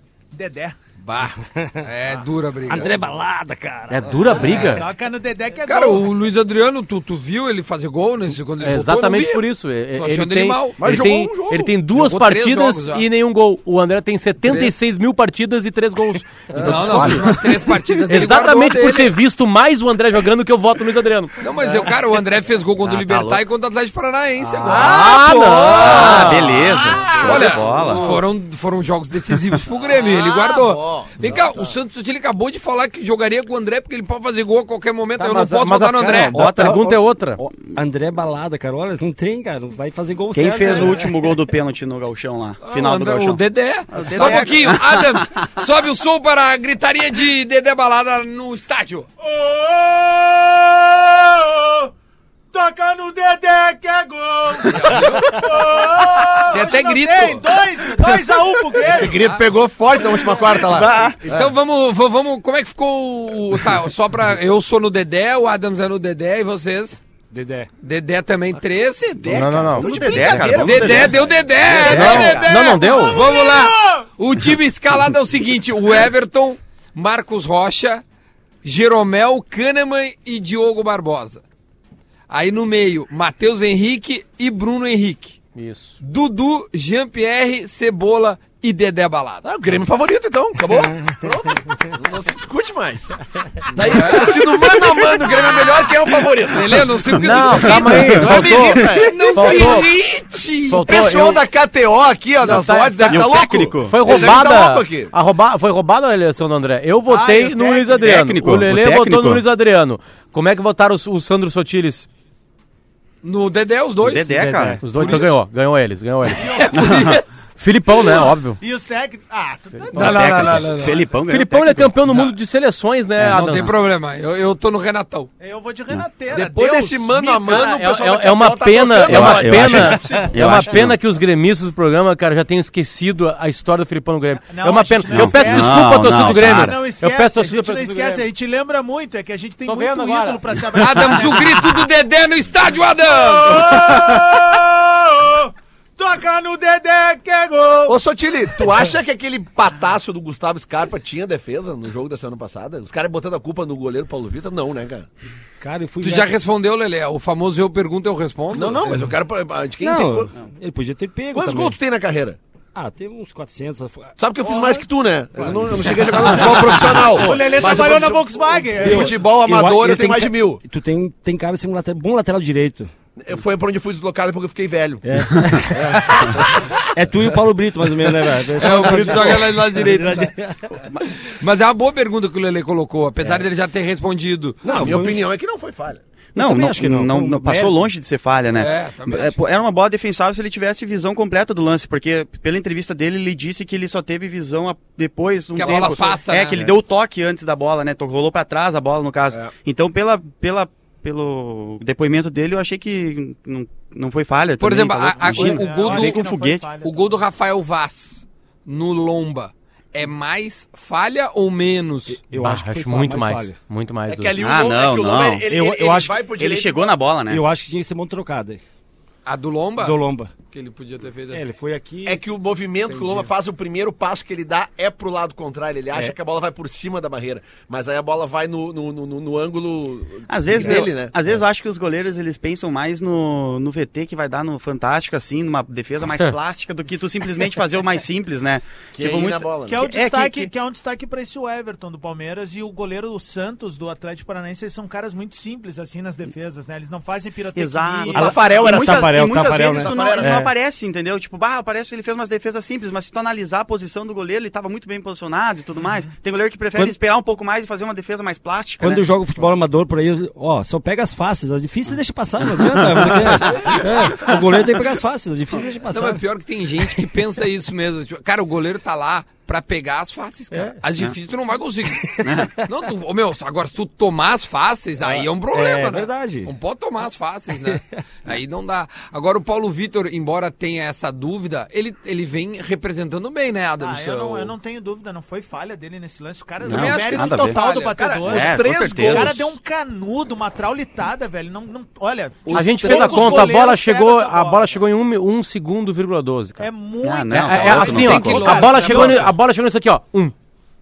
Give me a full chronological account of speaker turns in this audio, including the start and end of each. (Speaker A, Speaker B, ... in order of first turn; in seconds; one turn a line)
Speaker A: 0.3-0.8
Speaker B: 1.0-3.0
Speaker C: 1.5-1.8
Speaker C: 2.7-4.4
Speaker D: 3.9-4.8
Speaker A: 4.3-6.1
Speaker B: 4.4-4.8
Speaker B: 5.7-10.8
Speaker D: 8.6-17.4
Speaker E: 10.8-11.7
Speaker B: 11.9-13.1
Speaker B: 14.4-14.7
Speaker E: 16.5-17.3
Speaker B: 16.5-19.1
Speaker D: 18.1-21.3
Speaker B: 21.4-36.4
Speaker F: 22.8-23.4
Speaker E: 24.6-25.1
Speaker D: 24.6-26.8
Speaker F: 25.8-28.2
Speaker A: 26.7-27.6
Speaker E: 30.0-31.7
Speaker D: 35.2-37.4
Speaker C: 36.3-41.1
Speaker F: 36.3-36.9
Speaker F: 40.3-43.4
Speaker B: 42.6-49.1
Speaker F: 43.9-45.4
Speaker A: 49.2-51.9
Speaker A: 52.5-59.3
Speaker B: 54.7-55.4
Speaker B: 56.5-57.5
Speaker E: 58.0-61.5
Speaker B: 59.2-59.4
Speaker F: 60.5-61.2
Speaker B: 61.2-67.0
Speaker C: 67.3-67.7
Speaker B: 67.8-69.1
Speaker E: 69.0-72.6
Speaker F: 69.2-71.2
Speaker D: 69.3-71.0
Speaker B: 70.5-78.0
Speaker D: 71.8-73.3
Speaker F: 71.9-72.2
Speaker A: 72.2-74.0
Speaker B: 78.6-81.4
Speaker B: 82.3-85.4
Speaker D: 85.5-85.9
Speaker B: 86.0-89.5
Speaker E: 89.4-93.2
Speaker E: 93.7-97.0
Speaker B: 93.7-95.6
Speaker B: 96.5-98.5
Speaker F: 97.1-99.8
Speaker D: 97.1-99.9
Speaker E: 98.0-99.5
Speaker B: 99.0-100.9
Speaker D: 100.7-101.4
Speaker E: 100.8-105.1
Speaker D: 102.4-112.1
Speaker F: 103.1-104.3
Speaker A: 107.1-108.1
Speaker F: 108.0-109.4
Speaker B: 113.2-114.3
Speaker F: 114.0-114.8
Speaker C: 114.2-115.2
Speaker D: 114.8-116.5
Speaker B: 114.9-115.3
Speaker A: 116.3-117.1
Speaker B: 116.4-117.2
Speaker F: 116.8-117.2
Speaker D: 117.6-118.6
Speaker A: 118.0-120.7
Speaker B: 119.9-121.0
Speaker F: 119.9-121.9
Speaker D: 121.2-123.7
Speaker B: 122.1-122.3
Speaker F: 123.2-123.7
Speaker B: 123.2-125.3
Speaker A: 125.4-127.9
Speaker E: 126.3-130.7
Speaker D: 127.5-138.3
Speaker F: 129.1-131.0
Speaker A: 134.5-141.8
Speaker F: 135.1-136.8
Speaker D: 139.7-140.4
Speaker B: 140.7-144.1
Speaker A: 143.1-148.0
Speaker E: 147.9-155.1
Speaker C: 155.6-156.3
Speaker B: 156.0-159.0
Speaker E: 158.5-160.3
Speaker C: 159.8-161.8
Speaker E: 161.3-162.4
Speaker C: 162.7-164.1
Speaker E: 164.2-170.6
Speaker A: 164.4-164.9
Speaker C: 165.4-167.8
Speaker A: 166.5-169.3
Speaker C: 168.8-172.9
Speaker E: 173.2-176.9
Speaker C: 175.0-180.8
Speaker B: 178.6-180.3
Speaker E: 178.9-179.3
Speaker B: 181.3-184.9
Speaker E: 184.6-186.0
Speaker C: 184.7-185.2
Speaker C: 186.3-187.9
Speaker F: 186.3-206.6
Speaker B: 188.5-189.4
Speaker B: 195.6-196.6
Speaker B: 204.6-206.2
Speaker A: 205.2-207.0
Speaker B: 206.8-212.2
Speaker C: 212.2-213.6
Speaker D: 212.3-214.3
Speaker E: 214.1-216.9
Speaker F: 214.4-215.5
Speaker C: 215.5-216.2
Speaker F: 216.4-217.4
Speaker C: 217.3-218.6
Speaker B: 219.2-220.0
Speaker C: 219.8-220.3
Speaker B: 220.5-221.4
Speaker C: 221.3-222.2
Speaker E: 222.0-231.1
Speaker B: 222.9-223.3
Speaker F: 230.3-240.5
Speaker E: 238.9-239.9
Speaker A: 239.7-248.7
Speaker F: 247.5-259.1
Speaker E: 248.1-250.4
Speaker C: 248.6-250.5
Speaker A: 255.8-256.1
Speaker C: 258.8-266.2
Speaker F: 263.4-263.8
Speaker B: 265.9-284.5
Speaker C: 270.5-270.8
Speaker C: 272.1-272.3
Speaker F: 272.2-272.5
Speaker C: 275.1-276.5
Speaker A: 283.8-294.7
Speaker F: 286.6-287.6
Speaker B: 286.6-288.0
Speaker E: 287.8-289.5
Speaker F: 288.2-289.4
Speaker E: 292.4-293.6
Speaker D: 292.5-296.7
Speaker A: 296.6-299.3
Speaker F: 297.0-298.5
Speaker D: 297.3-300.3
Speaker B: 297.6-299.3